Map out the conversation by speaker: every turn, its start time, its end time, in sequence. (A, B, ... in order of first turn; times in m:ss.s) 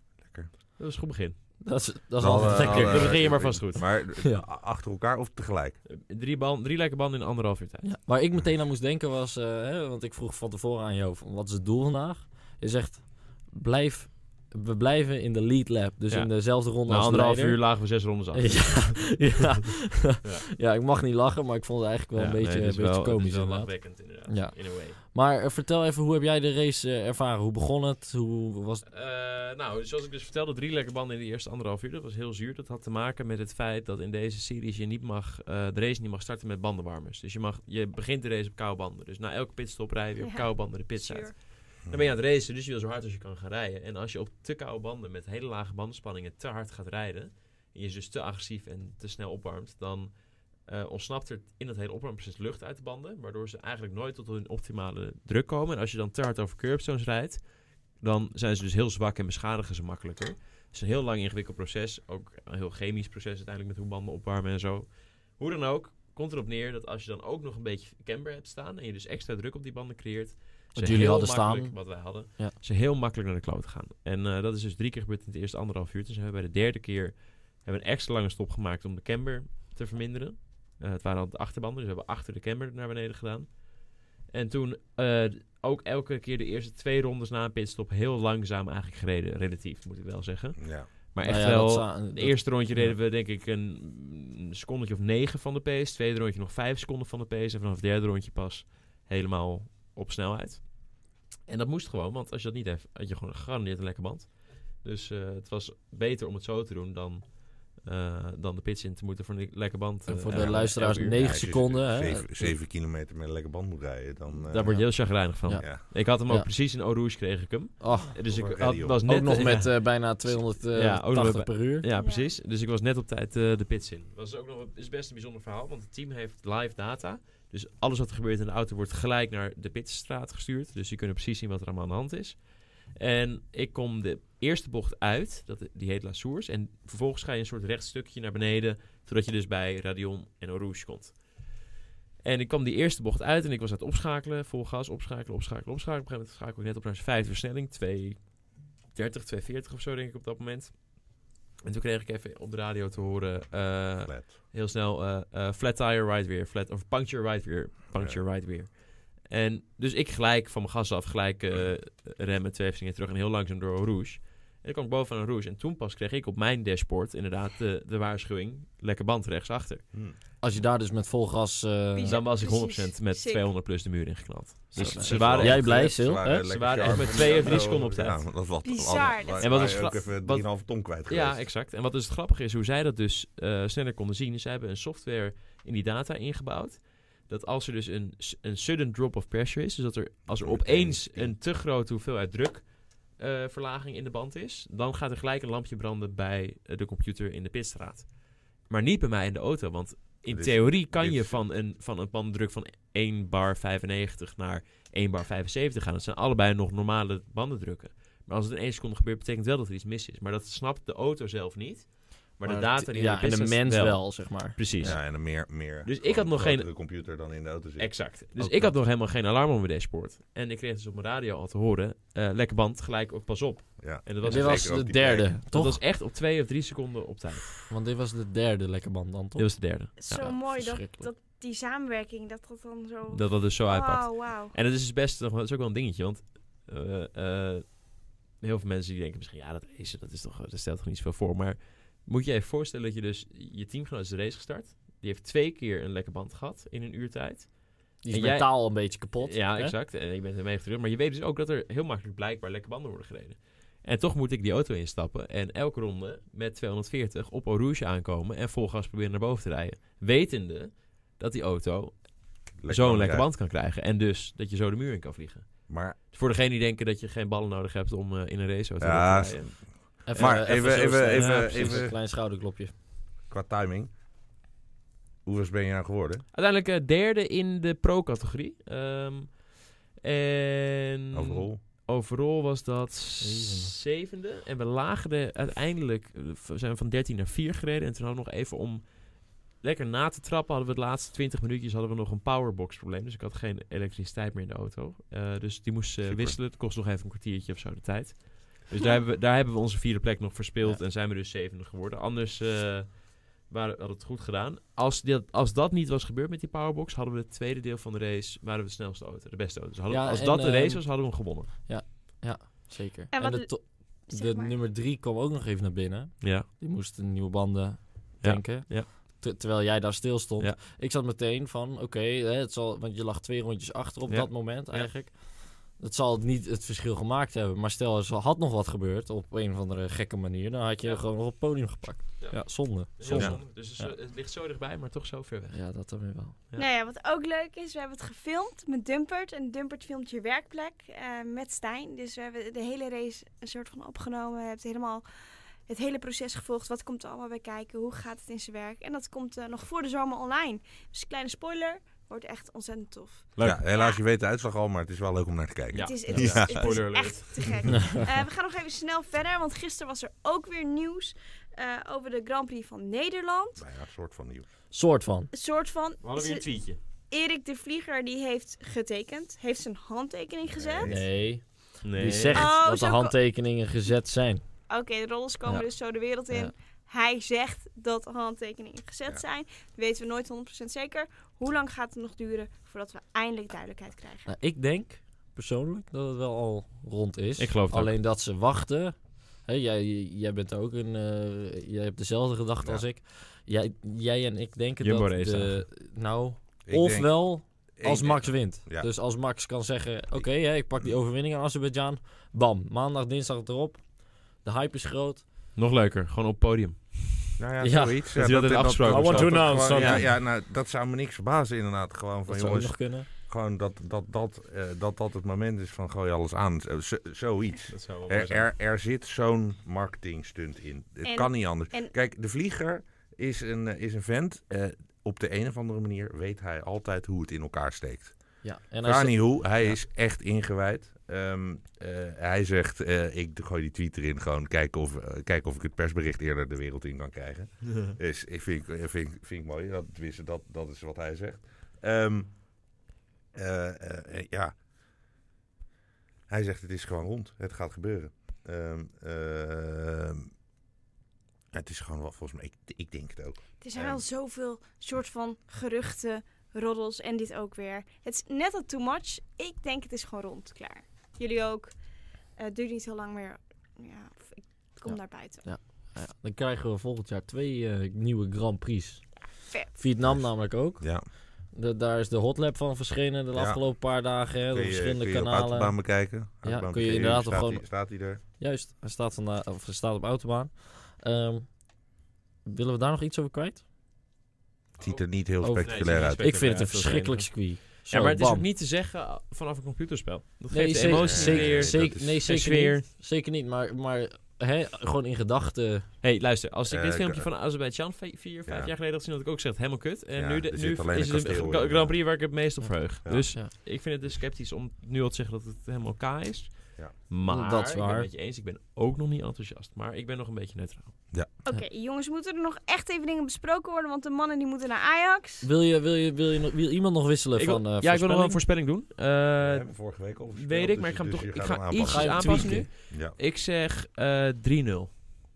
0:00.2-0:00.5 A
0:00.8-0:01.4 B
0:01.6-0:03.3 C
0:02.2-0:05.8 A
0:02.4-0:03.9 B
0:04.2-0:04.4 C
0:05.9-0:07.9 B
0:07.8-0:28.8 C
0:16.1-0:19.3 B
0:20.2-0:20.5 B
0:22.2-0:25.0 B
0:28.8-0:50.1 B
0:40.2-0:41.3 D
0:50.6-0:57.4 B
0:57.9-1:23.8 B
1:10.7-1:12.6 C
1:24.3-1:40.7 B
1:30.6-1:30.9 A
1:31.2-1:32.9 C
1:41.4-1:51.4 B
1:50.1-1:52.5 C
1:50.3-1:55.0 A
1:54.4-2:12.4 B
1:54.6-1:56.5 C
1:57.8-1:58.1 C
1:58.2-1:59.0 A
1:59.0-2:01.9 C
2:01.9-2:02.3 D
2:13.0-2:21.2 B
2:22.2-2:28.2 B
2:28.9-2:30.9 B
2:31.6-2:49.8 B
2:34.0-2:34.4 A
2:37.9-2:38.2 A
2:50.4-2:52.2 C
2:51.9-2:53.4 D
2:52.0-2:55.9 B
2:54.8-2:57.4 C
2:54.9-3:01.4 A
2:56.4-2:58.3 B
2:58.6-2:59.8 D
2:59.4-3:36.7 B
3:10.3-3:11.3 A
3:20.3-3:21.4 A
3:32.4-3:35.0 C
3:34.8-3:38.0 A
3:37.8-3:47.6 B
3:38.4-3:38.7 C
3:43.8-3:45.3 A
3:44.2-3:45.8 C
3:47.7-3:51.1 C
3:49.4-3:50.0 B
3:50.0-3:54.5 D
3:53.1-4:31.8 B
4:08.0-4:09.7 C
4:22.6-4:23.3 A
4:25.7-4:26.0 A
4:28.8-4:32.0 A
4:30.0-4:32.7 C
4:33.3-4:33.9 A
4:35.2-4:36.2 A
4:36.3-5:11.5 B
4:41.1-4:41.6 A
4:43.2-4:43.7 C
4:56.0-4:56.4 A
5:09.9-5:33.9 C
5:13.1-5:14.6 D
5:16.2-5:16.5 B
5:18.2-5:18.9 B
5:24.1-5:24.9 B
5:32.2-5:35.6 B
5:33.1-5:33.4 A
5:35.5-5:36.3 C
5:36.6-5:45.0 D
5:45.7-5:54.0 D
5:53.4-5:56.8 A
5:55.7-5:58.0 B
5:55.7-6:03.6 D
6:03.6-6:04.4 A
6:04.7-6:05.3 C
6:05.3-6:06.5 D
6:06.0-6:06.8 B
6:07.1-6:10.9 D
6:10.5-6:11.0 A
6:10.8-6:14.4 C
6:11.8-6:12.5 B
6:12.3-6:13.1 D
6:14.7-6:24.3 D
6:24.2-6:45.2 C
6:27.4-6:27.9 B
6:34.8-6:35.6 B
6:36.6-6:38.9 A
6:40.1-6:40.9 A
6:45.6-6:47.3 B
6:47.4-7:08.2 A
6:47.6-6:48.0 C
6:48.1-6:50.1 B
6:48.8-6:50.1 C
6:52.3-6:53.1 C
6:57.7-6:58.5 B
7:01.0-7:01.9 D
7:08.4-7:09.8 C
7:08.8-7:22.3 A
7:23.3-7:24.5 A
7:26.3-7:30.3 A
7:31.5-7:34.0 A
7:33.6-7:41.7 D
7:42.4-7:45.4 D
7:44.9-7:51.0 C
7:49.5-7:49.7 D
7:50.0-7:50.3 A
7:50.8-7:51.0 A
7:51.5-7:55.8 C
7:53.3-7:53.7 A
7:54.5-7:58.2 A
7:56.4-7:57.7 C
7:58.2-8:01.6 C
8:02.4-8:03.6 C
8:04.8-8:12.8 B
8:04.8-8:06.4 A
8:05.4-8:08.5 C
8:10.5-8:15.9 C
8:10.8-8:12.2 A
8:16.0-8:30.9 B
8:16.7-8:17.3 A
8:18.5-8:18.7 A
8:20.1-8:22.0 A
8:27.2-8:28.1 C
8:31.4-8:35.5 D
8:35.4-8:38.4 C
8:37.4-8:39.7 B
8:39.4-8:43.2 A
8:40.3-8:44.9 B
8:41.8-8:42.7 C